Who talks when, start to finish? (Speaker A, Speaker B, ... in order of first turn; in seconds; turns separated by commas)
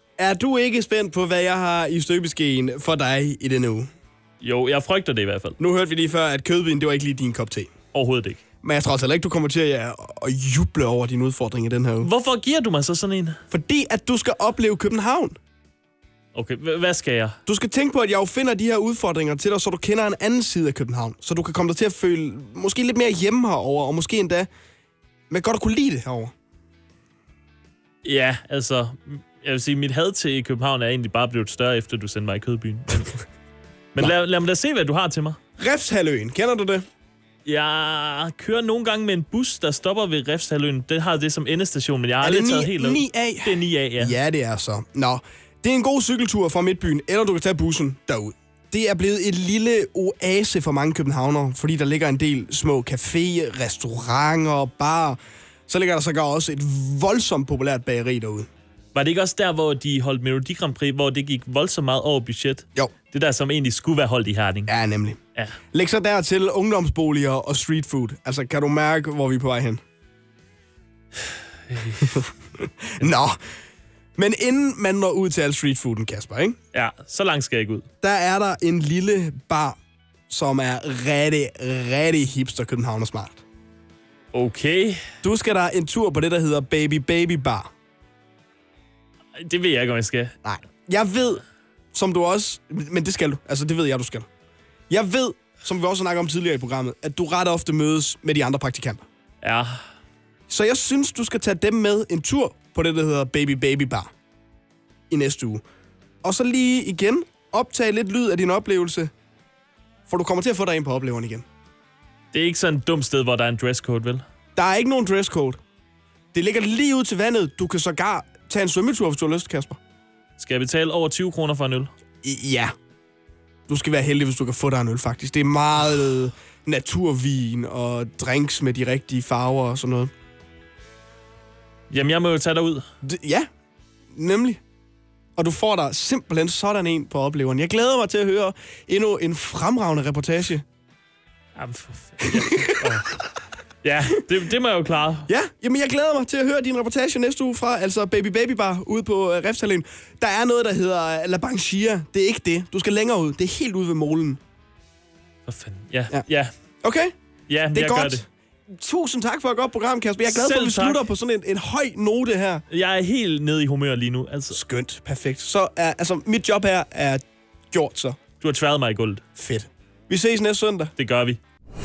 Speaker A: 0.2-3.9, Speaker B: 4.4-5.6, Speaker A: 5.6-7.7, Speaker B: 7.9-8.4, Speaker A: 8.6-12.1, Speaker B: 12.0-13.4, Speaker A: 13.5-15.4, Speaker B: 16.3-17.4, Speaker A: 17.4-24.5, Speaker A: 25.3-26.3, Speaker B: 28.0-33.1, Speaker B: 33.9-35.4, Speaker A: 35.6-36.8, Speaker B: 37.4-44.1, Speaker A: 42.2-58.5, Speaker B: 58.9-64.7, Speaker A: 64.7-65.2, Speaker A: 65.7-69.8, Speaker B: 71.7-72.2, Speaker A: 72.0-73.4, Speaker A: 74.2-76.6, Speaker B: 76.7-77.8, Speaker A: 78.0-79.8, Speaker A: 80.3-83.4, Speaker B: 84.3-85.0, Speaker A: 85.2-87.7, Speaker B: 89.4-90.3, Speaker A: 90.4-91.4, Speaker A: 91.9-94.3, Speaker A: 94.9-99.0, Speaker B: 99.4-99.8, Speaker A: 100.5-104.1, Speaker A: 105.1-105.6, Speaker A: 106.2-109.1, Speaker A: 110.1-111.4, Speaker B: 112.3-114.2, Speaker A: 114.5-115.6, Speaker A: 116.3-119.8, Speaker B: 120.4-121.9, Speaker A: 122.2-122.7, Speaker A: 123.7-130.1, Speaker B: 131.9-132.8, Speaker A: 133.0-133.5, Speaker A: 134.1-134.6, Speaker A: 135.4-140.6, Speaker B: 141.6-143.1, Speaker A: 142.2-143.0, Speaker B: 143.8-145.3, Speaker A: 145.3-154.4, Speaker B: 155.5-156.5, Speaker A: 156.8-157.1, Speaker B: 157.5-158.2, Speaker A: 157.7-162.6, Speaker B: 160.2-161.0, Speaker B: 162.7-164.6, Speaker A: 164.5-168.2, Speaker B: 168.4-169.2, Speaker A: 169.3-170.9, Speaker B: 171.0-171.4